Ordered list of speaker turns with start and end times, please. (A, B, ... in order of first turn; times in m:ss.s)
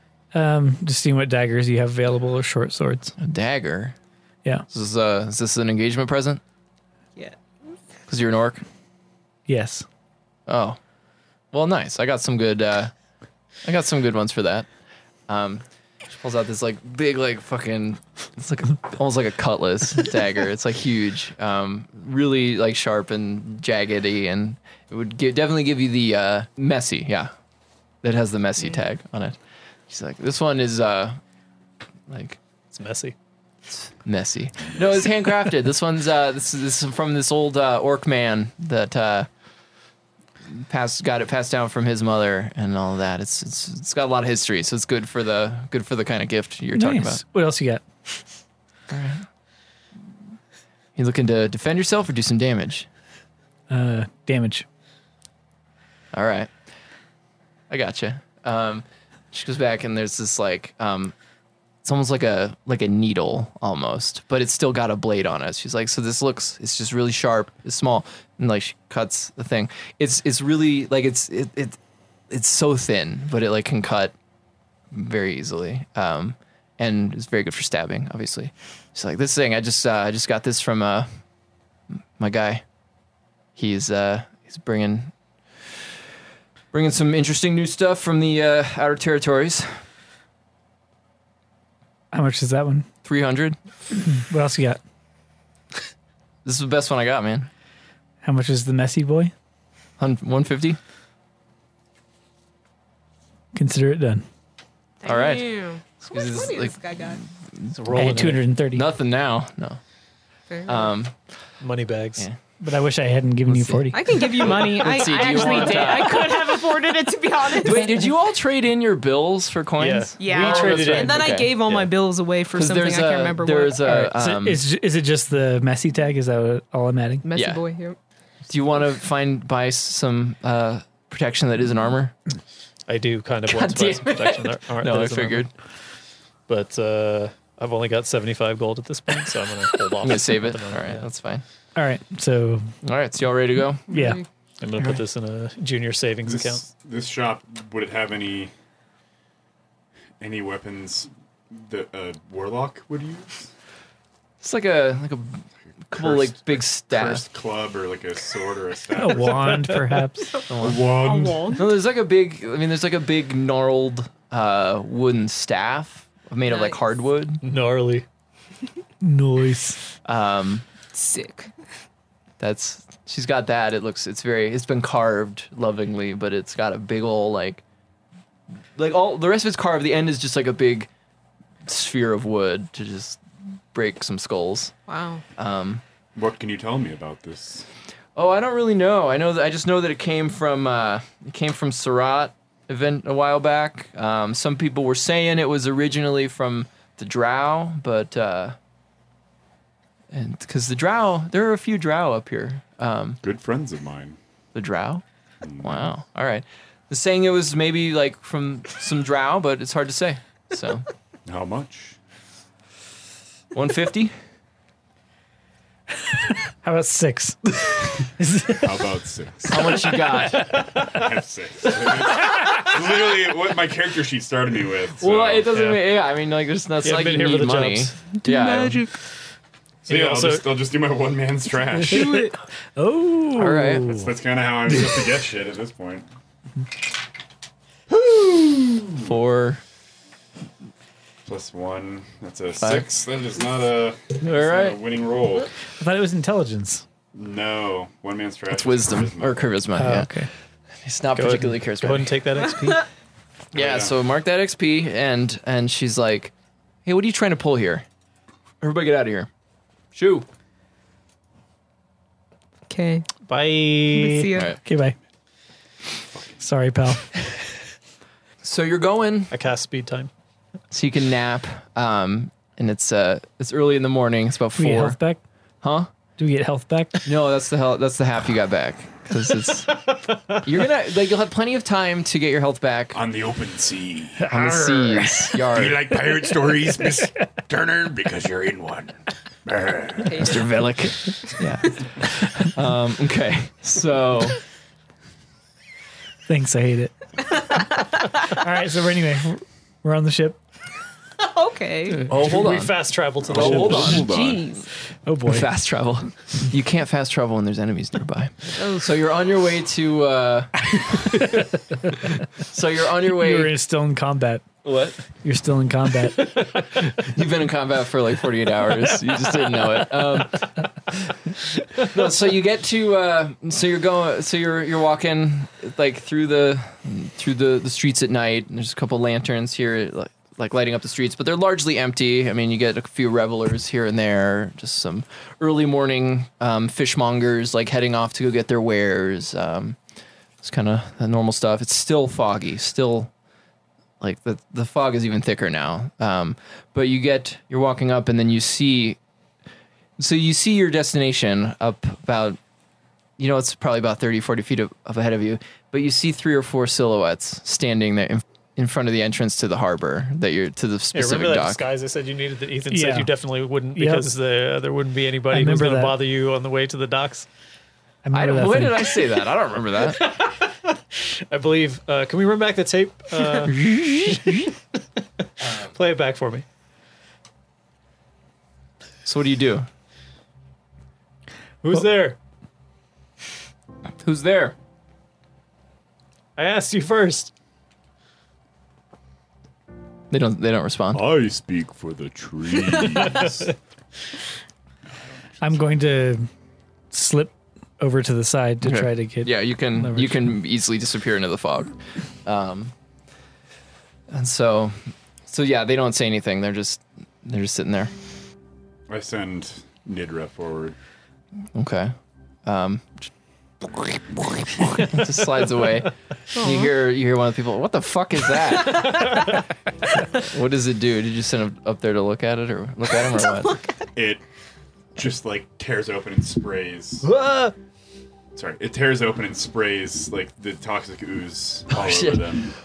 0:00.3-0:03.2 A
0:03.2-0:04.0 B
0:04.7-0:06.4 B
0:08.1-0:08.6 B
0:09.5-0:09.9 A
0:10.5-0:10.8 B
0:11.5-0:12.9 B
0:13.6-0:14.7 B
0:15.3-0:27.3 B
0:28.0-0:29.4 B
0:29.9-0:31.2 B
0:32.1-0:32.4 B
0:32.7-0:33.2 C
0:34.0-0:39.3 B
0:40.5-0:47.2 B
0:46.7-0:47.8 A
0:48.9-0:49.3 B
0:51.0-0:52.9 B
0:53.7-0:54.7 A
0:56.1-0:56.5 B
0:57.7-1:01.1 B
1:01.8-1:11.8 B
1:12.3-1:14.1 B
1:14.9-1:21.1 B
1:22.2-1:22.6 B
1:23.6-1:25.1 B
1:26.7-1:29.8 B
1:32.1-1:32.9 A
1:33.0-1:33.6 B
1:34.0-1:34.8 A
1:36.4-1:37.5 B
1:38.2-1:39.3 A
1:40.0-1:40.8 B
1:43.5-1:44.3 A
1:45.0-1:47.2 D
1:45.0-1:49.8 B
1:47.7-1:48.4 C
1:47.9-1:48.9 A
1:50.5-1:50.9 D
1:50.7-1:51.1 B
1:51.6-1:52.2 C
1:52.6-1:54.1 A
1:53.5-1:56.6 B
1:53.9-1:58.0 D
1:57.6-2:01.6 B
1:59.8-2:01.9 C
2:00.2-2:03.8 D
2:02.5-2:04.6 B
2:03.8-2:07.2 A
2:07.2-2:08.0 D
2:07.4-2:07.6 B
2:08.5-2:12.1 B
2:12.9-2:15.5 C
2:13.5-2:15.5 B
2:16.5-2:21.0 C
2:20.0-2:21.4 B
2:21.8-2:22.7 A
2:22.8-2:24.0 B
2:23.9-2:24.2 A
2:23.9-2:24.2 D
2:24.6-2:26.7 C
2:26.3-2:28.5 E
2:30.2-2:33.5 E
2:34.4-2:37.3 B
2:35.9-2:39.8 E
2:38.9-2:40.4 A
2:39.5-2:39.8 C
2:40.4-2:41.7 D
2:40.5-2:40.8 B
2:40.6-2:41.6 E
2:41.5-2:47.4 B
2:46.5-2:46.8 D
2:47.4-2:48.0 C
2:49.0-2:49.8 A
2:50.0-2:50.7 B
2:50.9-2:51.5 D
2:52.4-2:57.6 B
2:58.8-3:00.9 B
3:01.7-3:03.2 B
3:03.7-3:04.7 B
3:04.9-3:05.2 D
3:05.4-3:05.8 B
3:06.2-3:07.7 E
3:08.2-3:18.6 B
3:20.1-3:23.2 B
3:23.2-3:24.2 E
3:24.5-3:25.0 B
3:25.4-3:25.8 E
3:25.6-3:30.9 B
3:31.3-3:32.0 E
3:33.5-3:34.1 B
3:36.1-3:37.6 A
3:38.1-3:38.9 A
3:38.6-3:39.8 E
3:39.5-3:40.6 B
3:39.9-3:40.8 A
3:40.4-3:45.5 E
3:45.0-3:48.8 B
3:45.5-3:45.9 C
3:46.8-3:48.0 C
3:48.2-3:48.9 D
3:49.8-3:52.3 E
3:49.9-3:50.6 C
3:51.9-3:54.1 A
3:51.9-3:52.4 D
3:53.3-3:54.0 B
3:53.9-3:56.1 E
3:57.9-3:59.1 E
3:59.0-3:59.6 B
4:01.2-4:05.5 E
4:02.6-4:02.9 B
4:04.2-4:04.8 B
4:05.8-4:06.8 A
4:07.1-4:09.5 E
4:08.5-4:10.1 B
4:09.8-4:10.3 A
4:10.8-4:12.2 B
4:11.2-4:12.9 C
4:13.5-4:16.3 B
4:13.5-4:14.0 E
4:16.8-4:17.8 B
4:18.6-4:19.3 B
4:19.9-4:20.3 B
4:22.7-4:23.1 D
4:23.3-4:24.3 C
4:23.9-4:24.6 D
4:24.3-4:24.6 B
4:24.6-4:25.0 A
4:26.4-4:27.1 A
4:28.4-4:29.3 B
4:29.3-4:30.1 C
4:30.7-4:35.0 B
4:34.6-4:35.2 A
4:35.6-4:35.9 B
4:36.2-4:37.1 A
4:37.0-4:43.0 B
4:42.9-4:44.3 E
4:44.2-4:45.4 A
4:44.3-4:45.8 B
4:45.4-4:50.4 E
4:50.1-4:50.4 D
4:50.2-4:54.4 B
4:56.3-4:57.6 A
4:57.4-4:57.9 D
4:58.3-5:00.4 A
5:01.2-5:02.1 D
5:02.1-5:02.8 B
5:02.1-5:04.1 C
5:03.2-5:04.4 E
5:03.3-5:04.2 B
5:04.0-5:04.7 D
5:05.1-5:05.5 A
5:05.2-5:13.5 B
5:08.6-5:08.9 D
5:13.1-5:14.5 A
5:14.6-5:15.0 B
5:15.2-5:16.4 A
5:16.6-5:20.7 B
5:21.8-5:39.8 B
5:40.4-5:43.1 B
5:44.0-5:49.0 B
5:50.0-5:52.4 B
5:53.2-6:01.6 B
6:00.9-6:07.3 C
6:02.7-6:03.1 A
6:03.7-6:04.1 A
6:05.3-6:06.0 A
6:08.0-6:08.9 A
6:08.1-6:10.1 B
6:09.9-6:13.6 C
6:13.5-6:14.5 B
6:15.4-6:15.7 B
6:15.7-6:16.4 C
6:19.0-6:19.7 B
6:21.6-6:22.2 C
6:24.0-6:24.6 B
6:26.4-6:27.3 C
6:30.1-6:31.0 B
6:30.9-6:33.6 E
6:34.9-6:35.6 E
6:35.4-6:36.3 A
6:36.9-6:40.3 A
6:38.6-6:41.7 B
6:42.2-6:42.7 B
6:44.1-6:47.9 B
6:48.9-6:50.8 E
6:51.5-6:51.9 B
6:52.5-6:53.1 B
6:53.6-6:59.2 B
6:56.4-6:56.7 D
6:58.8-6:59.0 D
7:00.2-7:03.6 B
7:03.4-7:03.9 D
7:04.0-7:04.2 E
7:05.0-7:07.1 E
7:07.0-7:07.5 C
7:08.4-7:12.5 E
7:11.7-7:12.3 B